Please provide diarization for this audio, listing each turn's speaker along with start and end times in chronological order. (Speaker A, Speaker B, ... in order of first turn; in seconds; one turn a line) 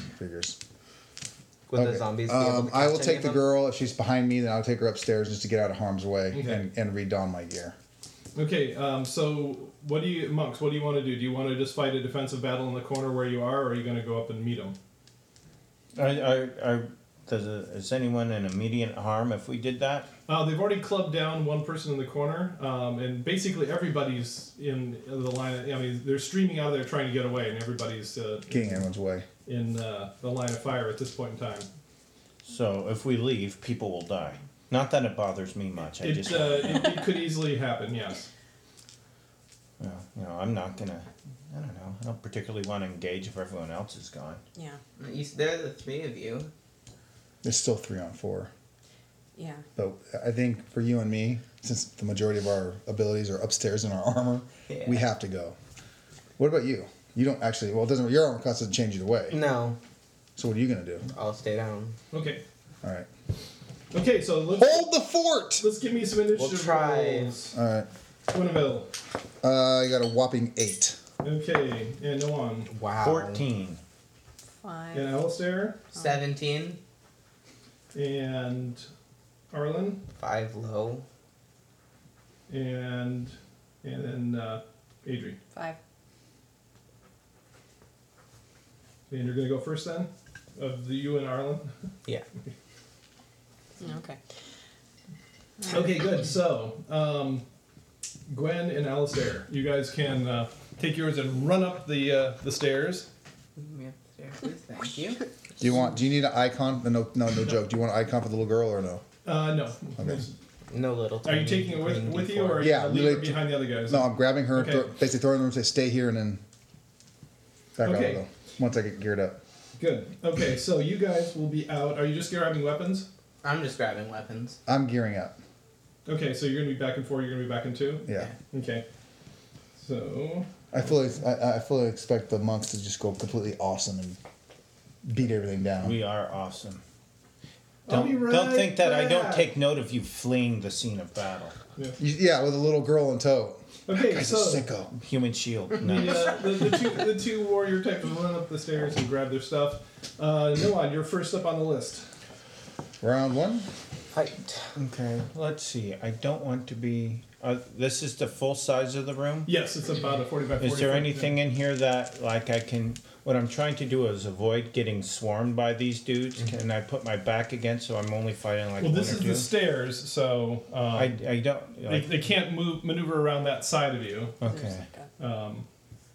Speaker A: 0.1-0.6
Speaker B: 1.7-3.4
Speaker A: 1.7-7.7
Speaker C: 6.3-6.7
Speaker C: 8.3-14.8
Speaker D: 15.9-20.1
Speaker C: 20.3-28.9
Speaker A: 28.5-29.2
Speaker C: 29.4-31.7
Speaker D: 32.5-36.9
Speaker C: 36.0-38.3
Speaker D: 39.8-44.4
Speaker E: 45.0-46.5
Speaker A: 47.4-48.5
Speaker F: 49.4-49.6
Speaker A: 49.8-55.5
Speaker E: 54.7-55.0
Speaker A: 56.4-59.4
Speaker B: 59.3-59.8
Speaker A: 60.4-61.1
Speaker B: 61.1-62.0
Speaker C: 62.1-62.4
Speaker C: 63.9-64.9
Speaker A: 64.5-65.7
Speaker C: 65.6-67.5
Speaker B: 66.3-67.3
Speaker A: 67.5-67.9
Speaker C: 68.3-68.9
Speaker A: 69.4-71.0
Speaker C: 71.2-72.7
Speaker B: 72.7-73.4
Speaker D: 73.0-73.8
Speaker F: 74.6-75.2
Speaker C: 74.9-75.8
Speaker E: 75.9-76.8
Speaker C: 77.9-78.8
Speaker C: 79.5-80.0
Speaker B: 80.2-81.0
Speaker C: 82.5-85.4
Speaker C: 89.1-91.7
Speaker F: 93.8-94.2
Speaker F: 95.6-95.9
Speaker C: 95.7-97.4
Speaker C: 98.3-103.1
Speaker E: 103.6-105.2
Speaker A: 105.6-109.0
Speaker C: 109.2-110.3
Speaker A: 110.0-110.2
Speaker B: 110.7-112.7
Speaker C: 111.2-114.9
Speaker A: 112.6-116.4
Speaker A: 117.8-119.4
Speaker C: 117.8-118.2
Speaker C: 119.8-123.1
Speaker E: 123.4-124.6
Speaker A: 124.7-125.3
Speaker C: 126.0-128.8
Speaker C: 129.8-130.5
Speaker A: 130.7-134.2
Speaker A: 135.0-136.0
Speaker D: 135.8-136.8
Speaker C: 137.8-139.5
Speaker D: 137.9-141.6
Speaker A: 142.0-144.9
Speaker C: 143.9-144.7
Speaker D: 145.0-146.4
Speaker C: 145.8-152.1
Speaker A: 153.0-153.7
Speaker B: 154.1-154.7
Speaker D: 154.8-159.5
Speaker C: 159.4-161.3
Speaker D: 160.6-169.5
Speaker C: 168.8-171.1
Speaker D: 170.9-172.2
Speaker C: 171.8-174.4
Speaker D: 174.4-174.9
Speaker F: 174.4-175.1
Speaker C: 175.2-175.7